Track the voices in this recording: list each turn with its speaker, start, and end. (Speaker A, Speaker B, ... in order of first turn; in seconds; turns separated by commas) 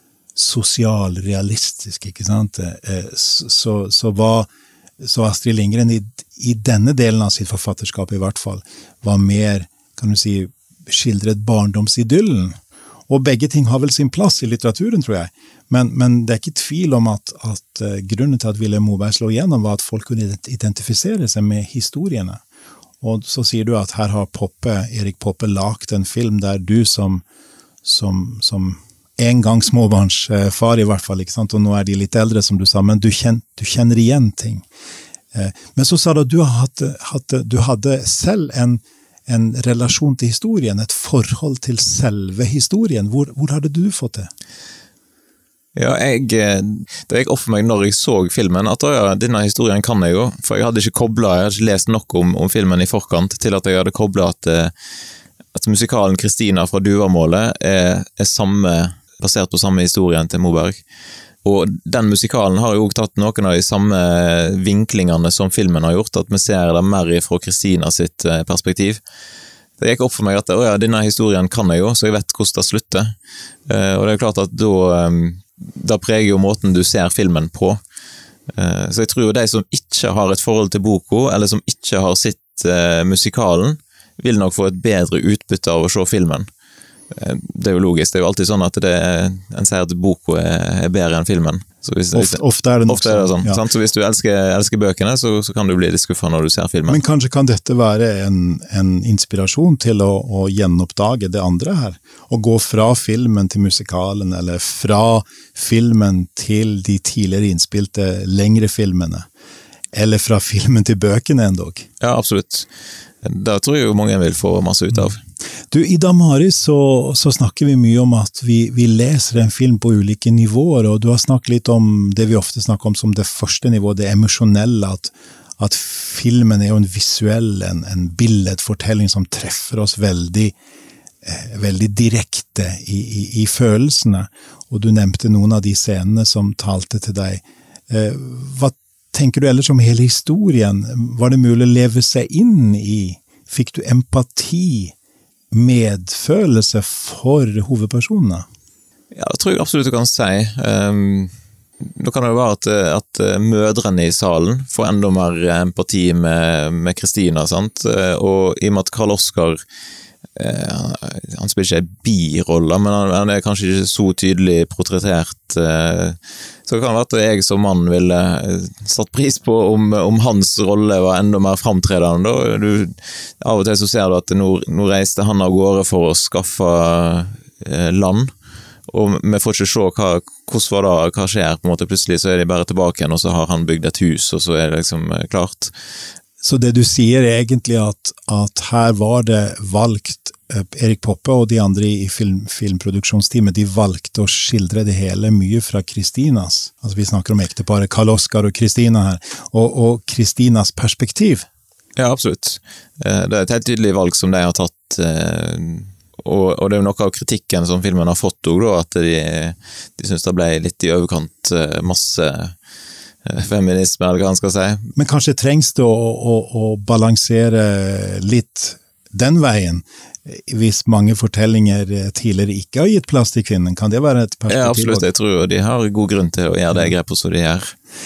Speaker A: 0.4-4.5, Speaker A: 5.0-12.6, Speaker A: 13.1-22.4, Speaker A: 23.0-27.2, Speaker A: 27.8-34.7, Speaker A: 35.3-44.3, Speaker B: 45.8-54.7, Speaker B: 55.5-60.8, Speaker B: 61.4-69.0, Speaker B: 69.8-73.2, Speaker B: 73.7-77.8, Speaker B: 78.5-86.5, Speaker B: 87.1-97.0, Speaker A: 92.1-93.6, Speaker A: 96.9-109.3, Speaker A: 109.9-111.9, Speaker B: 112.0-112.7, Speaker B: 113.2-115.2, Speaker A: 115.7-130.5, Speaker A: 131.2-144.9, Speaker A: 145.5-148.5, Speaker B: 149.1-159.6, Speaker B: 160.4-178.3, Speaker B: 178.9-185.7, Speaker A: 186.4-201.5, Speaker B: 202.0-212.6, Speaker B: 213.3-214.9, Speaker A: 215.0-225.1, Speaker B: 224.5-227.8